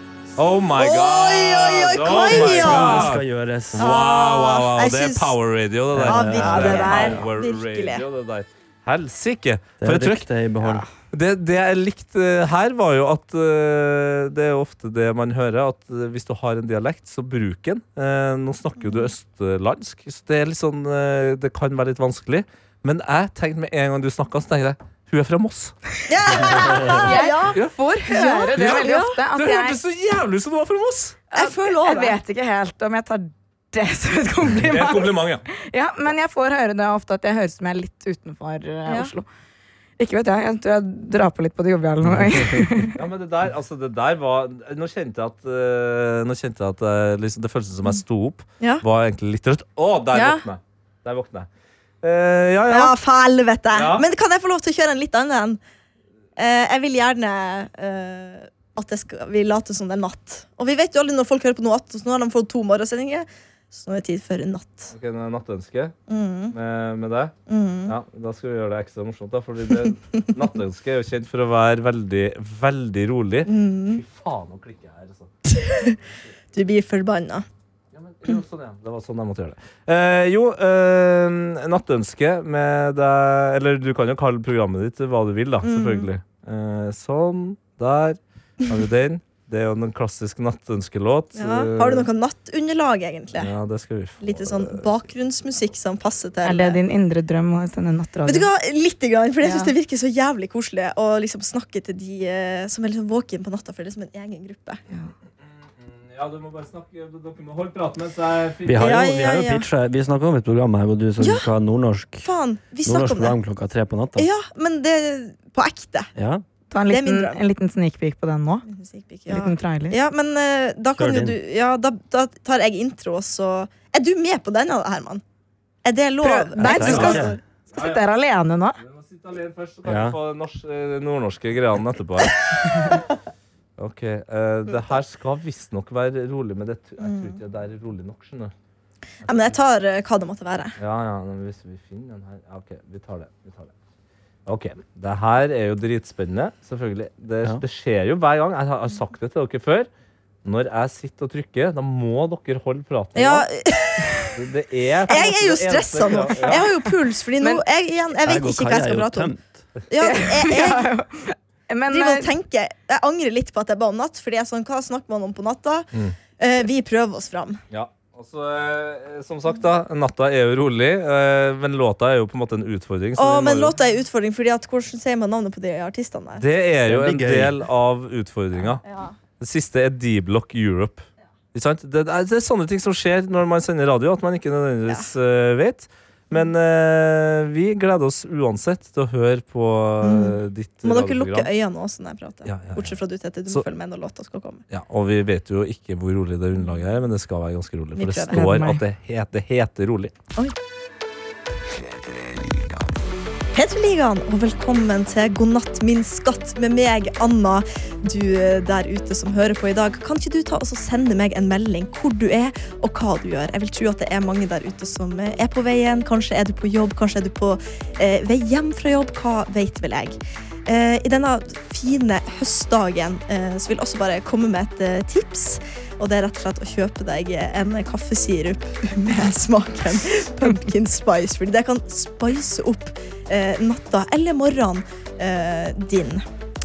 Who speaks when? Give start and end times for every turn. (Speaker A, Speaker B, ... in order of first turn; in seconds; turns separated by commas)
Speaker A: 0.4-3.2, Speaker B: 0.8-3.1, Speaker C: 2.1-3.9, Speaker A: 3.7-10.2, Speaker B: 3.8-5.3, Speaker C: 5.9-7.2, Speaker B: 6.0-8.0, Speaker C: 9.8-10.8, Speaker A: 11.1-25.8, Speaker B: 18.8-19.1, Speaker B: 26.1-29.2, Speaker D: 26.8-29.8, Speaker A: 28.6-31.2, Speaker D: 31.3-39.3, Speaker B: 31.3-32.2, Speaker A: 34.6-35.5, Speaker B: 38.9-39.1, Speaker D: 40.0-42.9, Speaker C: 42.3-42.7, Speaker A: 43.0-51.5, Speaker B: 50.1-50.4, Speaker A: 52.0-53.0, Speaker B: 52.7-55.6, Speaker A: 53.7-54.1, Speaker B: 56.4-64.9, Speaker A: 64.9-66.0, Speaker B: 66.1-66.5, Speaker A: 66.5-67.3, Speaker B: 67.5-67.9, Speaker A: 67.9-75.3, Speaker B: 73.5-74.0, Speaker B: 75.5-76.0, Speaker B: 76.5-77.5, Speaker A: 77.9-92.1, Speaker B: 85.6-86.1, Speaker B: 91.4-93.5, Speaker A: 93.4-94.9, Speaker B: 94.2-96.8, Speaker D: 96.4-98.5, Speaker B: 98.2-104.8, Speaker D: 99.4-99.7, Speaker A: 105.8-108.9, Speaker C: 108.7-112.3, Speaker B: 108.8-109.7, Speaker B: 111.2-111.5, Speaker B: 112.2-113.3, Speaker C: 112.8-114.3, Speaker B: 114.2-116.1, Speaker C: 116.2-116.4, Speaker D: 116.7-118.7, Speaker B: 116.9-117.4, Speaker B: 118.7-125.2, Speaker D: 119.3-120.0, Speaker C: 121.0-121.4, Speaker B: 125.8-127.4, Speaker D: 126.2-128.8, Speaker C: 126.6-127.4, Speaker A: 126.8-128.0, Speaker A: 128.8-133.0, Speaker C: 129.8-130.2, Speaker A: 133.8-138.5, Speaker B: 137.0-137.4, Speaker B: 139.2-140.8, Speaker A: 139.3-139.5, Speaker A: 140.8-143.7, Speaker A: 144.5-149.9, Speaker A: 150.4-153.5, Speaker B: 153.2-154.3, Speaker A: 154.3-156.7, Speaker B: 155.1-159.3, Speaker C: 158.2-159.6, Speaker B: 159.9-160.9, Speaker D: 160.0-162.3, Speaker B: 161.9-167.6, Speaker A: 167.7-173.7, Speaker B: 173.2-176.4, Speaker A: 176.4-178.8, Speaker C: 176.8-177.6, Speaker B: 178.9-179.2, Speaker A: 179.4-191.5, Speaker B: 190.0-194.6, Speaker A: 192.4-193.0, Speaker A: 194.7-200.1, Speaker B: 198.0-198.4, Speaker D: 198.3-198.8, Speaker B: 203.5-236.2